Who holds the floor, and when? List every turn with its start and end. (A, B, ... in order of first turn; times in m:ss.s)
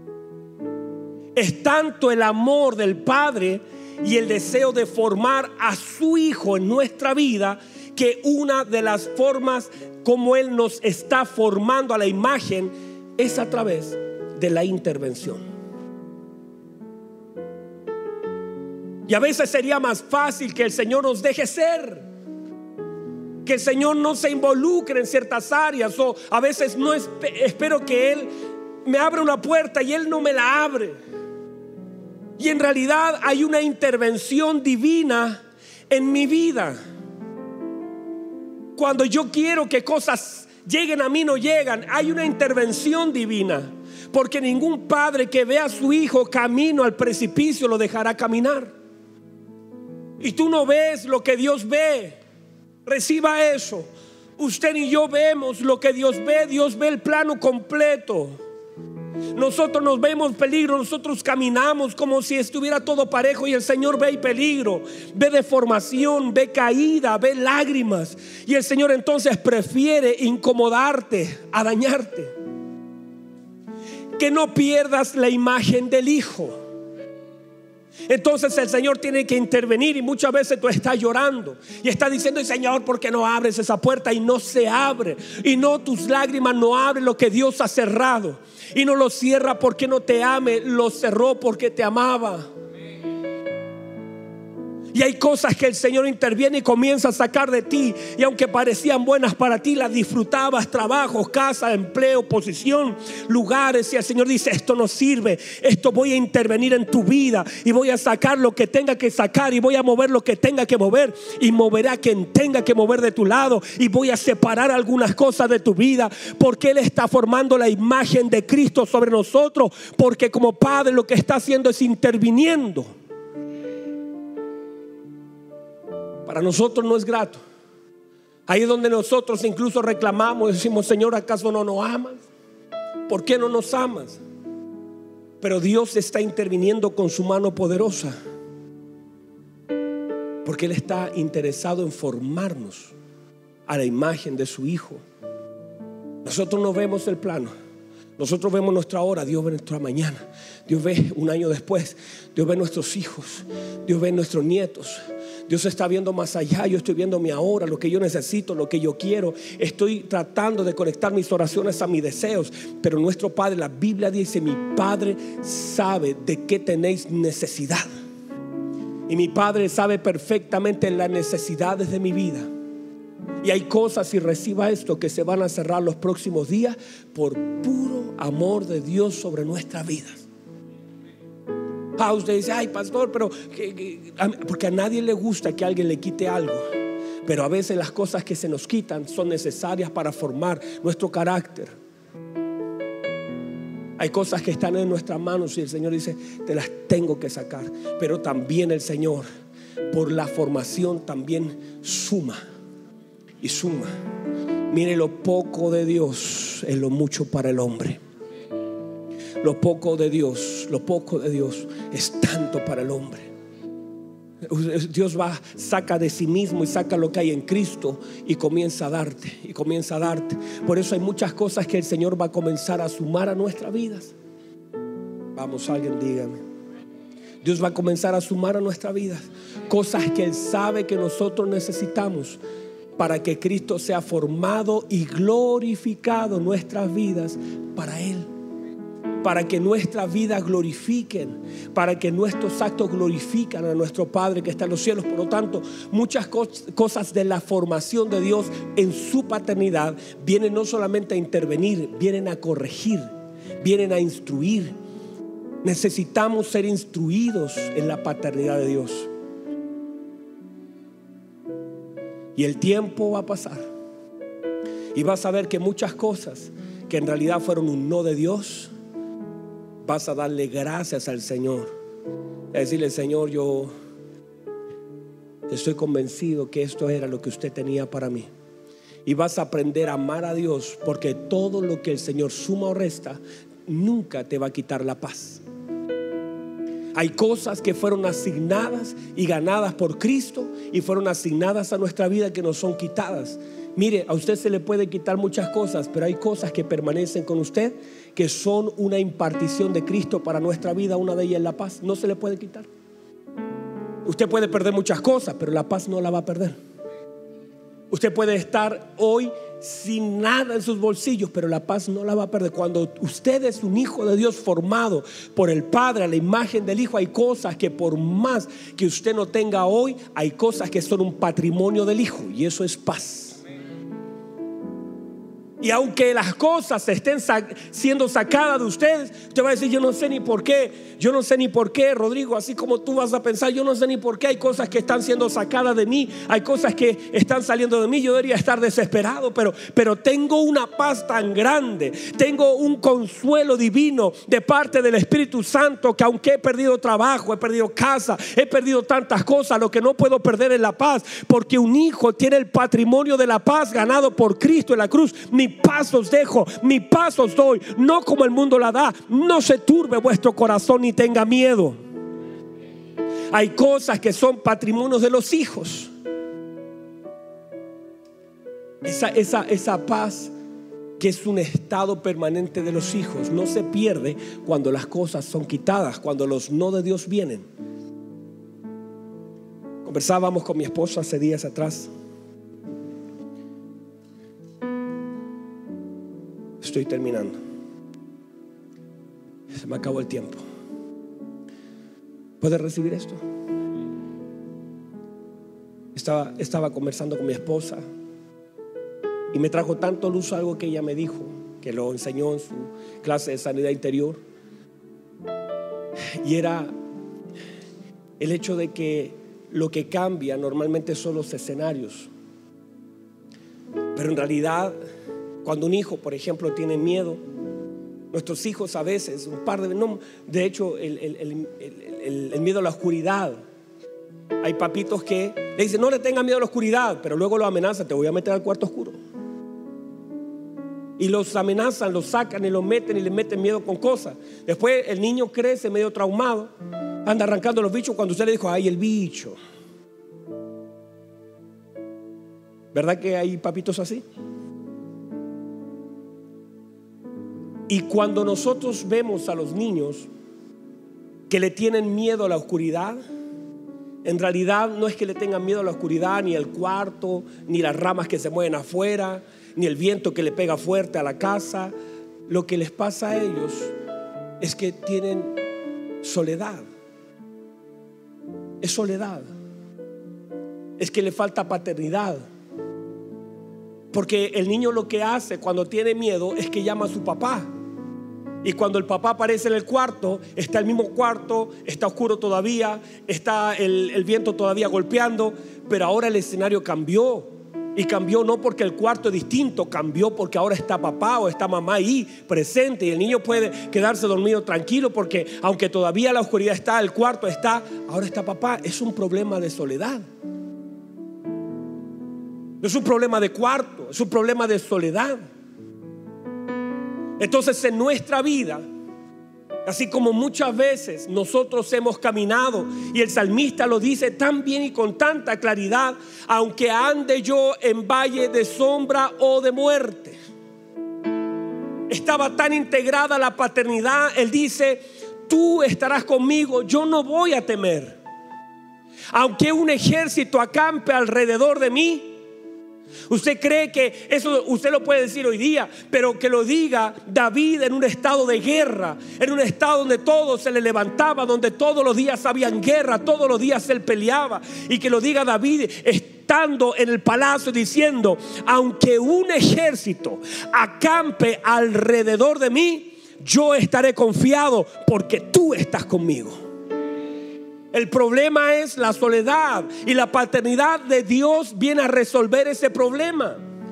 0:01.4-0:15.4 A
0:19.1-0:22.0 A
0:23.4-0:28.3 A
0:28.8-0:30.9 A
0:32.4-0:36.8 A
0:38.8-0:48.7 A
0:50.2-0:52.2 A
0:52.8-0:58.3 A
0:59.3-1:12.3 A
1:14.2-1:16.6 A
1:18.1-1:32.5 A
1:34.9-2:02.9 A
2:06.2-2:07.4 A
2:08.5-2:12.2 A
2:13.1-2:14.2 A
2:15.4-2:18.2 A
2:20.4-2:22.9 A
2:23.7-2:25.0 A
2:26.2-2:27.5 A
2:28.2-2:47.9 A
2:49.1-2:52.5 A
2:53.4-3:00.3 A
3:02.0-3:06.6 A
3:07.2-3:11.7 A
3:14.0-3:19.2 A
3:19.9-3:22.4 A
3:23.4-3:23.9 A
3:24.7-3:28.0 A
3:29.4-3:33.3 A
3:34.4-3:44.1 A
3:45.4-3:46.4 A
3:47.4-3:52.4 A
3:53.0-3:58.3 A
3:59.2-4:13.1 A
4:13.6-4:14.7 A
4:15.6-4:19.1 A
4:22.4-4:23.6 A
4:24.9-4:28.7 A
4:29.8-4:31.7 A
4:32.5-4:33.7 A
4:35.5-4:38.3 A
4:39.0-4:45.4 A
4:46.9-5:02.7 A
5:04.0-5:06.6 A
5:07.9-5:23.4 A
5:25.6-6:01.8 A
6:03.3-6:05.9 A
6:08.8-6:10.3 A
6:11.0-6:17.4 A
6:19.8-6:21.9 A
6:26.6-6:27.4 A
6:29.6-6:30.4 A
6:32.4-6:33.2 A
6:35.9-6:37.8 A
6:39.3-6:44.2 A
6:46.2-6:46.7 A
6:48.2-6:52.1 A
6:53.9-6:54.8 A
6:55.4-6:57.2 A
6:58.1-7:03.4 A
7:04.4-7:09.0 A
7:11.0-7:16.5 A
7:17.0-7:19.4 A
7:22.7-7:24.0 A
7:27.7-7:30.1 A
7:31.3-7:33.0 A
7:34.0-7:41.7 A
7:42.3-7:43.7 A
7:44.4-7:45.3 A
7:46.0-7:46.7 A
7:48.6-7:49.3 A
7:50.8-7:52.2 A
7:53.9-7:57.5 A
7:58.4-8:20.0 A
8:22.6-8:25.2 A
8:27.2-8:28.6 A
8:29.6-8:40.2 A
8:41.9-8:48.0 A
8:49.1-8:52.1 A
8:53.1-9:16.4 A
9:17.7-9:23.4 A